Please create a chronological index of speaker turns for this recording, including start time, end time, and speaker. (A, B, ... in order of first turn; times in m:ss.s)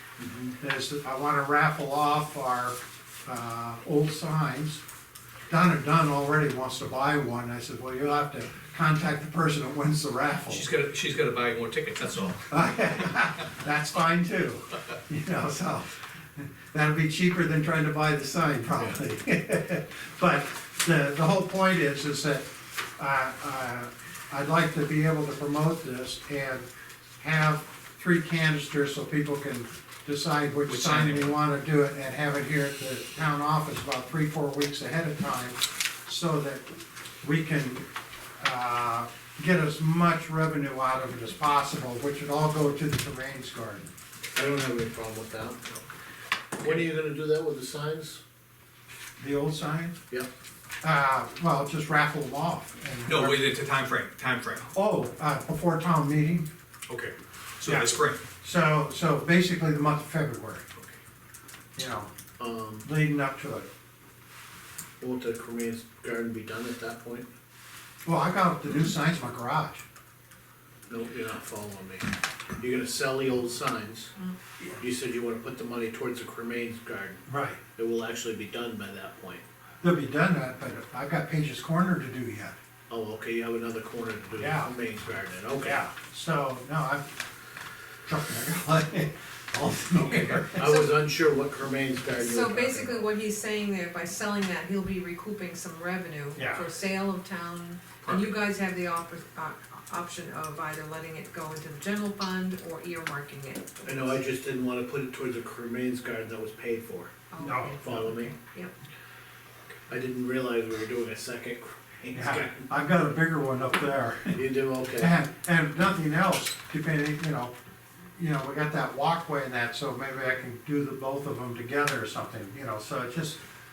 0:00.2-0:00.5 A
0:00.6-0:04.8 B
0:05.5-0:10.7 B
0:10.5-0:12.5 C
0:12.5-0:26.7 B
0:27.2-0:37.8 B
0:30.7-0:31.4 C
0:38.4-0:43.9 B
0:44.3-0:45.8 A
0:46.6-0:48.2 A
0:49.2-0:50.0 B
0:50.8-0:53.4 B
0:53.1-0:54.7 C
0:54.7-0:56.5 B
0:56.9-0:58.2 C
0:57.6-1:00.7 B
1:01.8-1:02.1 B
1:02.4-1:02.9 A
1:02.8-1:03.7 B
1:05.0-1:07.3 A
1:08.0-1:09.8 B
1:10.9-1:12.0 A
1:12.6-1:14.1 A
1:14.8-1:17.2 A
1:17.3-1:17.6 B
1:17.8-1:19.4 A
1:19.8-1:22.6 B
1:22.9-1:25.8 A
1:24.4-1:24.7 B
1:25.6-1:27.1 B
1:28.0-1:30.6 B
1:30.1-1:30.4 C
1:30.6-1:33.1 A
1:30.6-1:31.0 D
1:32.1-1:44.2 D
1:36.4-1:36.6 B
1:38.0-1:38.3 C
1:43.8-1:47.1 A
1:47.3-1:48.7 D
1:47.4-1:48.0 B
1:47.8-1:48.4 A
1:49.9-1:52.7 A
1:52.1-1:54.4 B
1:54.3-1:55.1 A
1:55.0-1:57.5 B
1:58.2-2:03.4 B